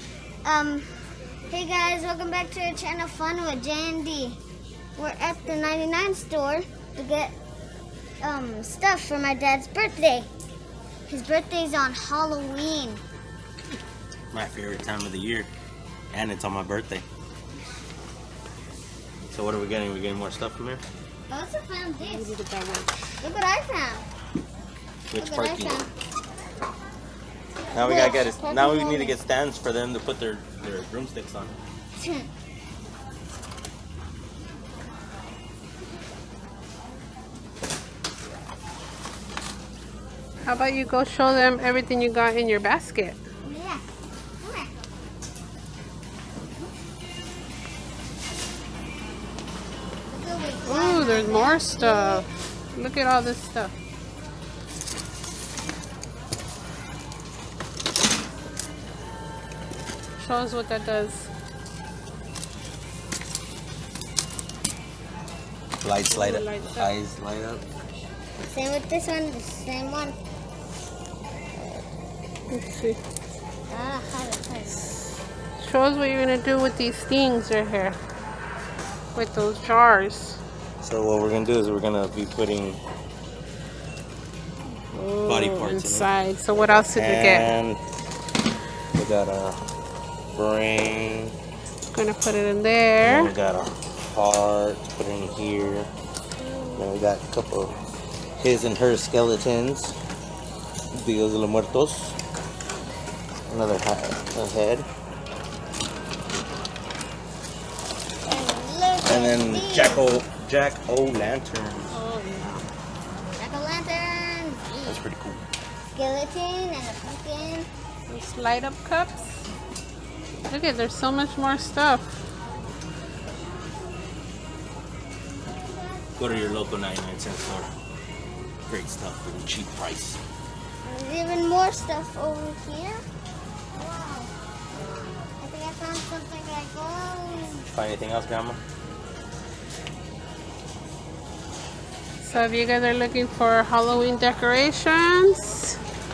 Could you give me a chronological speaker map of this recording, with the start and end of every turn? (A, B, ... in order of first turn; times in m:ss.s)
0:00.4-0:01.0 A
0:01.5-0:04.4 A
0:05.0-0:07.3 A
0:08.2-0:10.3 A
0:11.1-0:13.0 A
0:14.3-0:15.5 B
0:16.1-0:17.0 B
0:19.3-0:20.8 B
0:21.3-0:22.3 A
0:22.0-0:23.0 C
0:23.2-0:24.1 A
0:25.1-0:25.8 B
0:25.2-0:25.9 A
0:27.7-0:29.2 A
0:27.7-0:31.6 B
0:32.0-0:32.3 A
0:40.4-0:43.2 C
0:43.4-0:43.8 A
0:44.4-0:44.7 A
0:50.1-0:52.2 A
0:50.7-0:53.7 C
1:00.2-1:01.3 C
1:05.8-1:07.6 B
1:06.1-1:06.9 C
1:08.5-1:10.2 A
1:12.5-1:13.0 C
1:13.7-1:15.0 A
1:15.6-1:18.0 C
1:19.1-1:20.4 C
1:20.8-1:22.8 B
1:24.9-1:27.5 C
1:25.2-1:27.8 B
1:28.9-1:29.6 B
1:30.4-1:31.3 B
1:31.9-1:33.3 C
1:33.0-1:35.9 B
1:36.8-1:37.8 B
1:38.4-1:40.0 B
1:40.9-1:42.2 B
1:43.5-1:44.9 B
1:48.2-1:50.1 A
1:49.0-1:52.0 B
1:51.9-1:52.7 C
1:53.4-1:55.0 A
1:54.8-1:55.5 B
1:55.9-1:57.7 A
1:58.1-1:59.4 C
2:00.5-2:02.1 C
2:06.2-2:07.7 B
2:08.7-2:10.2 B
2:10.8-2:13.0 A
2:13.7-2:17.7 A
2:17.7-2:18.6 B
2:22.2-2:25.8 C